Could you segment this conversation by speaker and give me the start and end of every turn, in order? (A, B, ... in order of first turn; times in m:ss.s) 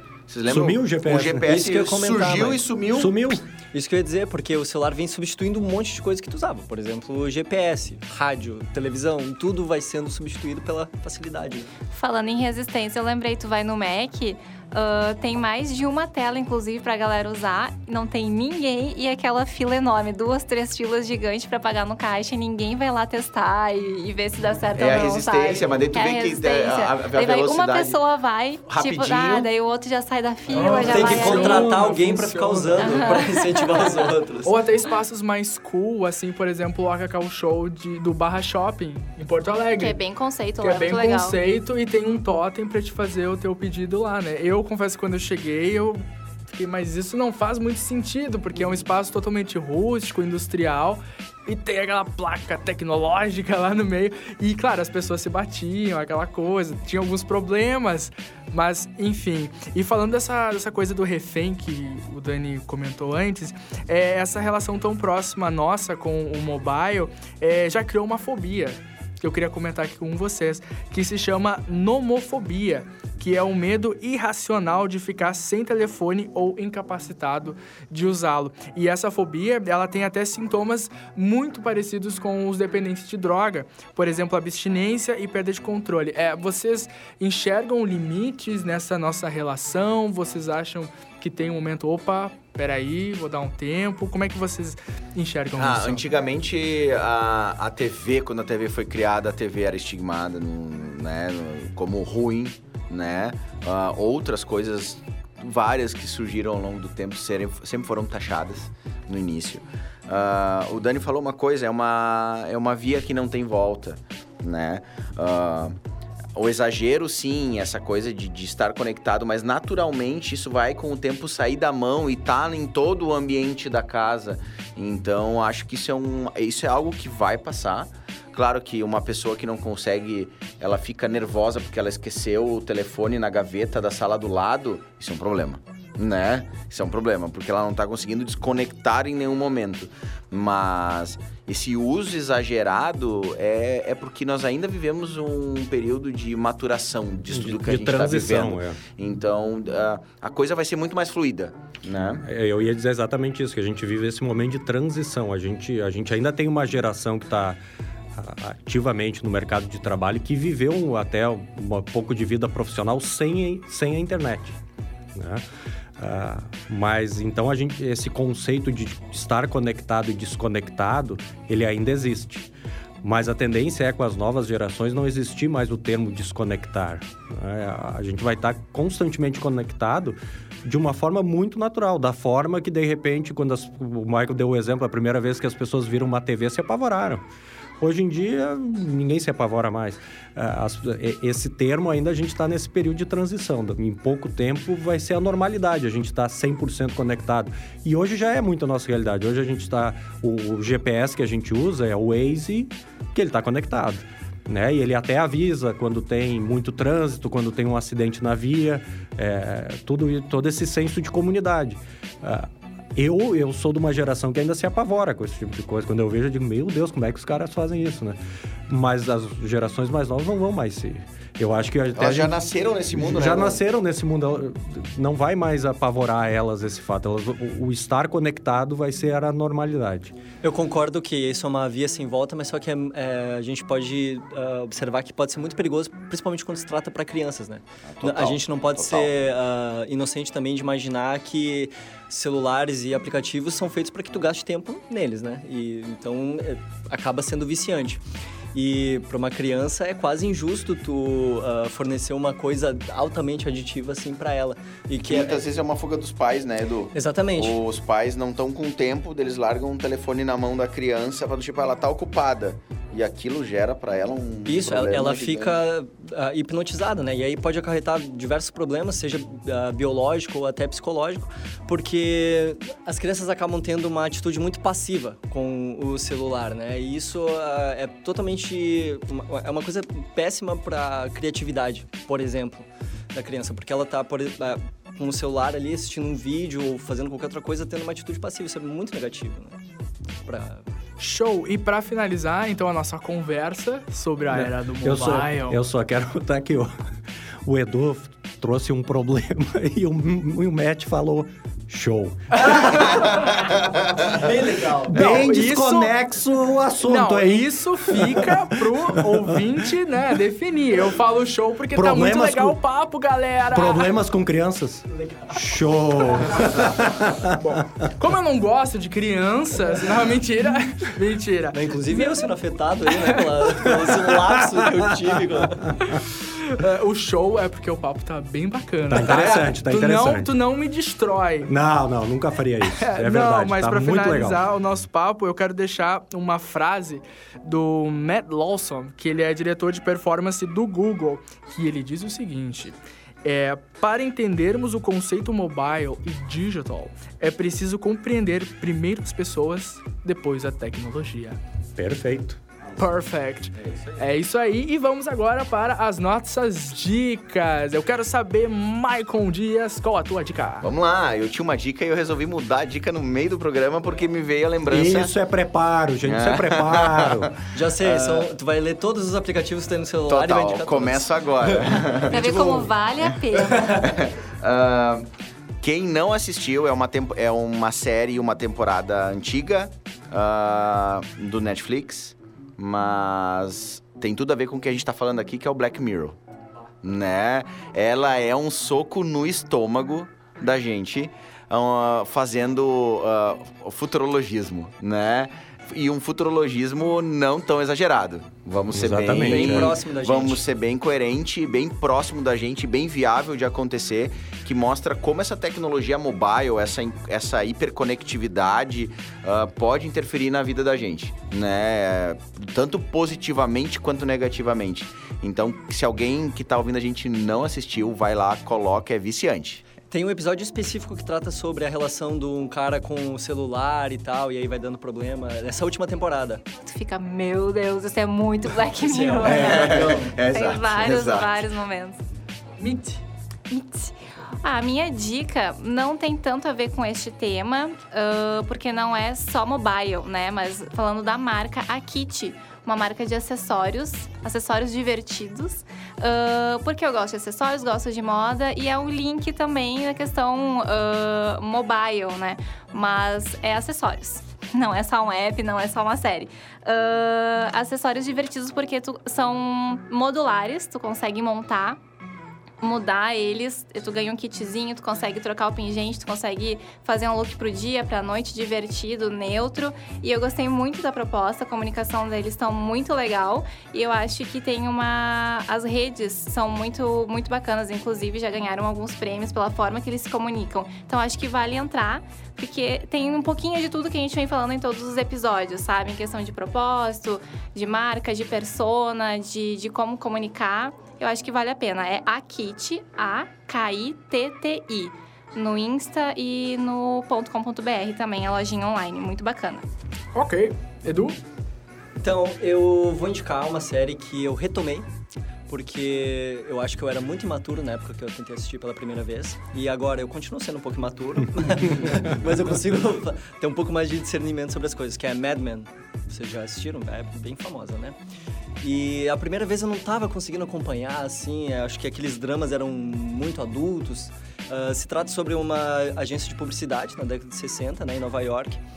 0:00.3-0:03.2 A
0:00.4-0:01.6 B
0:01.5-0:02.6 C
0:02.9-0:03.4 B
0:03.7-0:11.7 C
0:11.9-0:31.8 D
0:24.8-0:28.0 A
0:28.7-0:29.5 A
0:30.5-0:33.2 E
0:30.6-0:34.6 C
0:32.8-0:33.6 D
0:34.4-0:40.0 E
0:39.8-0:41.4 D
0:40.6-1:36.0 E
1:35.6-1:55.8 A
1:56.4-2:32.2 A
2:27.3-2:28.8 B
2:32.2-2:37.6 B
2:38.1-2:44.6 B
2:45.1-2:45.4 B
2:46.0-2:52.5 B
2:53.0-3:07.2 B
3:07.8-3:42.4 B
3:42.0-3:43.6 A
3:42.9-3:50.1 B
3:50.4-4:15.4 C
3:57.9-3:59.1 A
4:15.0-4:25.6 A
4:16.9-4:17.6 C
4:24.4-4:49.6 C
4:50.2-4:50.6 C
4:51.0-4:55.6 E
4:54.3-4:56.8 B
4:57.4-5:03.0 B
5:02.4-5:03.0 E
5:04.2-5:05.2 C
5:04.9-5:09.4 B
5:04.9-5:05.9 E
5:06.8-5:13.9 E
5:11.7-5:12.6 B
5:13.5-5:17.4 B
5:17.4-5:22.2 E
5:21.5-5:25.8 C
5:22.9-5:23.6 E
5:24.2-5:25.2 B
5:26.0-5:31.5 E
5:28.9-5:30.3 B
5:31.5-5:34.4 B
5:32.8-5:51.4 E
5:51.8-5:52.4 B
5:52.8-6:00.7 E
5:53.6-5:54.0 A
6:00.6-6:05.1 A
6:04.7-6:07.3 B
6:06.0-6:08.3 A
6:07.5-6:12.5 C
6:10.0-6:15.1 A
6:12.1-6:13.7 D
6:15.6-6:26.2 A
6:26.8-6:59.6 A
6:38.7-6:39.8 B
6:39.2-6:40.4 C
6:59.9-7:06.4 C
7:06.6-7:12.0 D
7:08.8-7:10.2 C
7:09.2-7:11.4 A
7:12.6-7:13.0 E
7:13.5-7:41.8 D
7:42.6-8:19.6 D
8:20.1-8:21.2 E
8:22.0-8:24.9 C
8:25.5-8:38.0 C
8:38.6-8:48.6 C